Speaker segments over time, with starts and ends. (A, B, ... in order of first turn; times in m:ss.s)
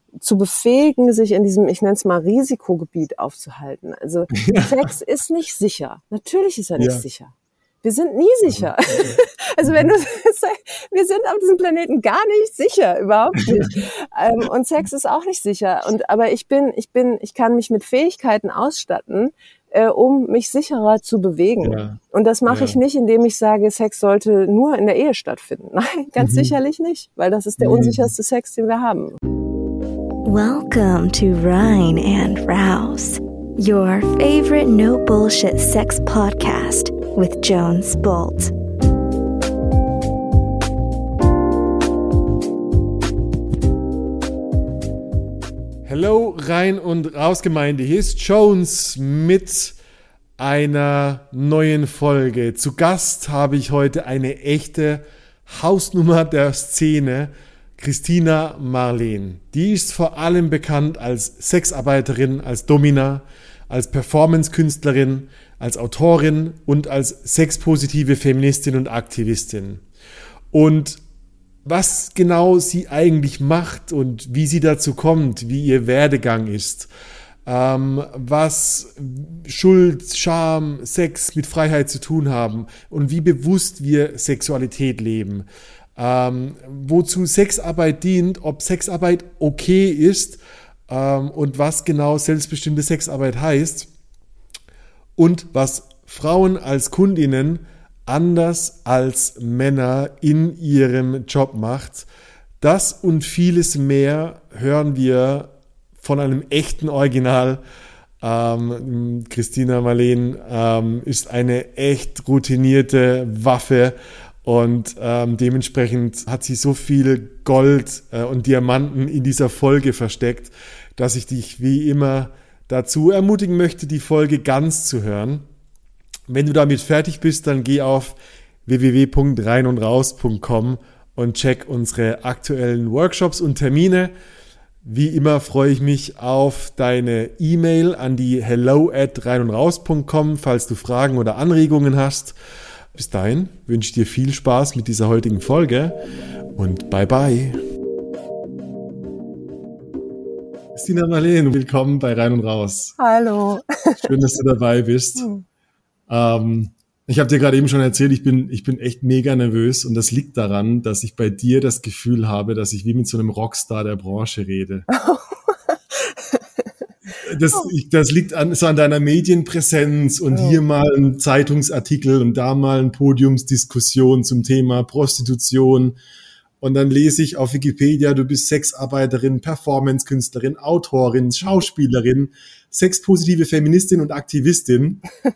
0:00.2-0:29.2 A
0:04.3-0:04.8 B
0:06.8-0:07.0 B
0:08.5-0:09.9 B
0:21.6-0:22.8 B
0:26.2-0:26.5 B
0:27.6-0:28.1 B
0:30.2-0:38.5 C
0:45.8-0:49.8 B
0:50.4-1:09.8 B
1:10.5-1:11.0 B
1:11.6-1:16.9 B
1:17.4-1:33.9 B
1:35.2-1:42.1 B
1:42.6-1:47.6 B
1:48.2-2:05.4 B
2:06.3-2:14.1 B
2:14.8-2:22.4 B
2:22.9-2:26.0 B
2:26.6-2:27.6 B
2:30.7-2:32.9 B
2:33.0-2:34.1 A
2:34.0-2:35.3 B
2:35.2-2:35.4 A
2:36.1-2:44.8 B
2:44.9-2:46.4 A
2:47.2-2:56.0 B
2:50.3-2:50.6 A
2:56.6-3:05.1 B